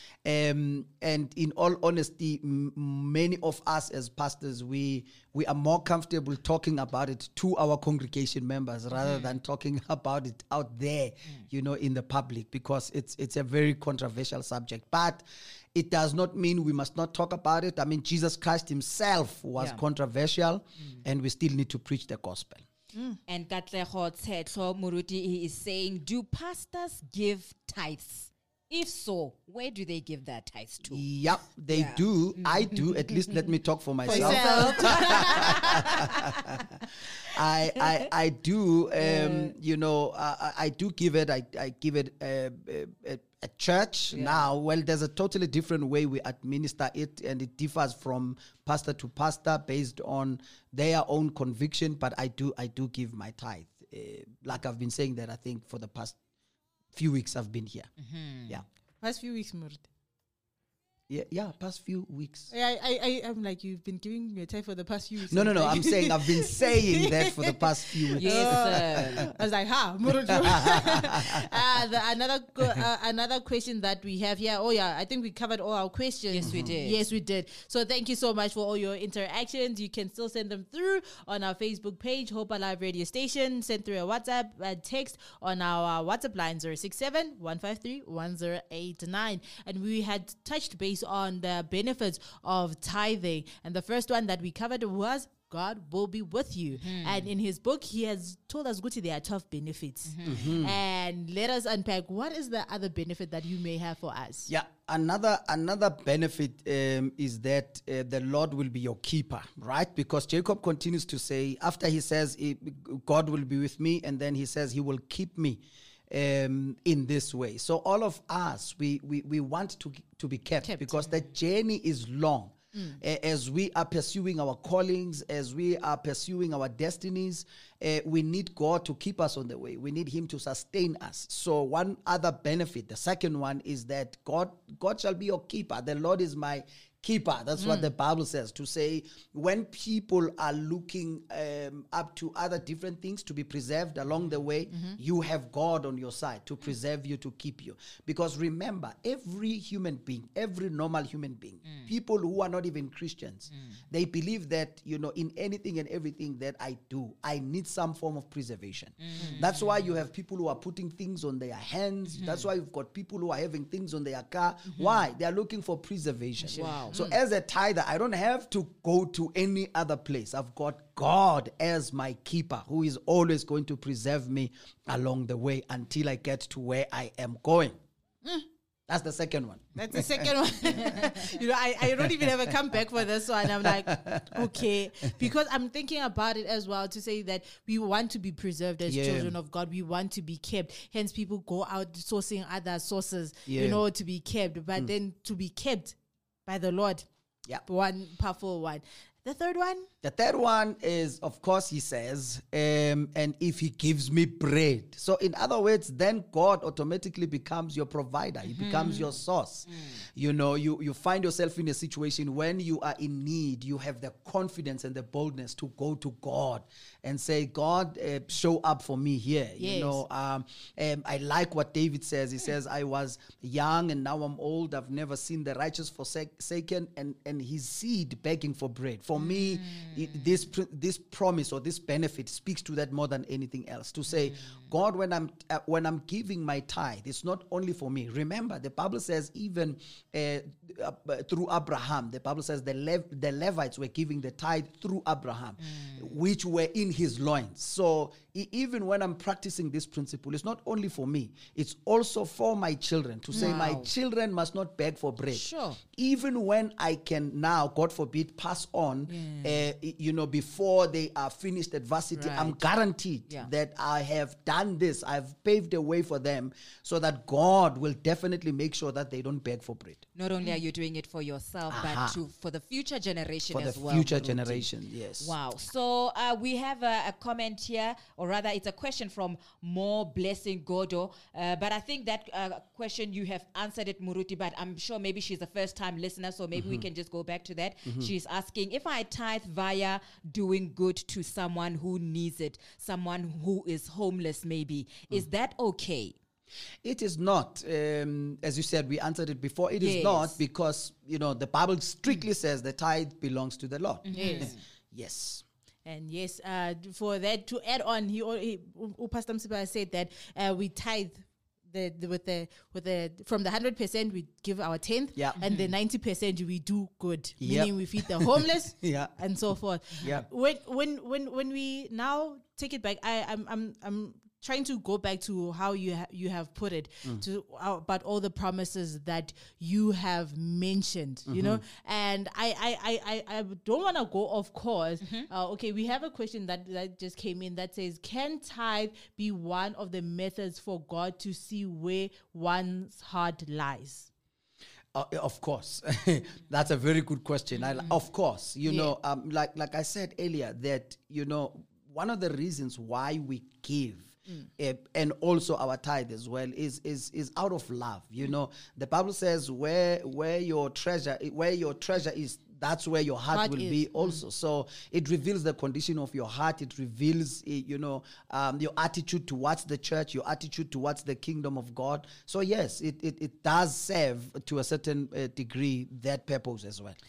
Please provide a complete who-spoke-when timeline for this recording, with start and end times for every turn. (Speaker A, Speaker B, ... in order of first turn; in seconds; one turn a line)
Speaker A: 0.2-22.6
Speaker B: 9.0-9.4
Speaker B: 19.6-19.8
Speaker C: 22.9-23.2
Speaker B: 23.3-31.0
Speaker A: 30.9-36.6
Speaker B: 31.7-33.5
Speaker C: 34.1-36.1
Speaker B: 34.1-36.4
Speaker A: 37.3-56.2
Speaker B: 39.0-39.5
Speaker B: 44.1-44.5
Speaker A: 56.9-57.9
Speaker B: 58.0-58.6
Speaker C: 59.0-59.9
Speaker A: 61.1-62.5
Speaker C: 62.5-67.5
Speaker A: 65.3-69.2
Speaker C: 68.1-104.5
Speaker B: 68.2-69.3
Speaker A: 70.3-71.4
Speaker B: 76.3-77.1
Speaker A: 76.4-76.8
Speaker B: 96.8-97.3
Speaker B: 100.1-100.5
Speaker A: 100.2-100.8
Speaker A: 104.5-177.8
Speaker C: 120.6-121.0
Speaker C: 137.6-137.9
Speaker C: 144.7-145.0
Speaker B: 159.0-159.9
Speaker B: 162.2-162.5
Speaker B: 164.7-165.0
Speaker B: 166.5-167.2
Speaker C: 166.6-167.1
Speaker A: 178.9-181.2
Speaker C: 179.8-197.1
Speaker A: 182.0-182.5
Speaker A: 183.4-184.6
Speaker A: 188.9-189.3
Speaker A: 193.5-193.8
Speaker C: 197.7-199.9
Speaker A: 200.0-270.1
Speaker B: 208.4-209.1
Speaker C: 219.6-220.0
Speaker B: 229.2-230.3
Speaker B: 234.1-234.6
Speaker B: 245.6-246.1
Speaker B: 253.3-253.9
Speaker B: 255.3-255.8
Speaker B: 259.1-259.6
Speaker B: 262.1-262.6
Speaker B: 270.1-274.7
Speaker A: 271.7-272.2
Speaker A: 273.5-275.3
Speaker B: 275.2-296.2
Speaker A: 286.5-286.9
Speaker A: 287.9-288.1
Speaker A: 296.8-305.4
Speaker B: 299.8-300.4
Speaker B: 304.1-304.6
Speaker C: 304.1-304.5
Speaker C: 305.9-344.1
Speaker B: 315.4-315.7
Speaker A: 317.4-319.2
Speaker A: 320.0-320.3
Speaker A: 331.3-331.6
Speaker B: 335.0-335.3
Speaker A: 344.9-377.0
Speaker C: 363.3-364.2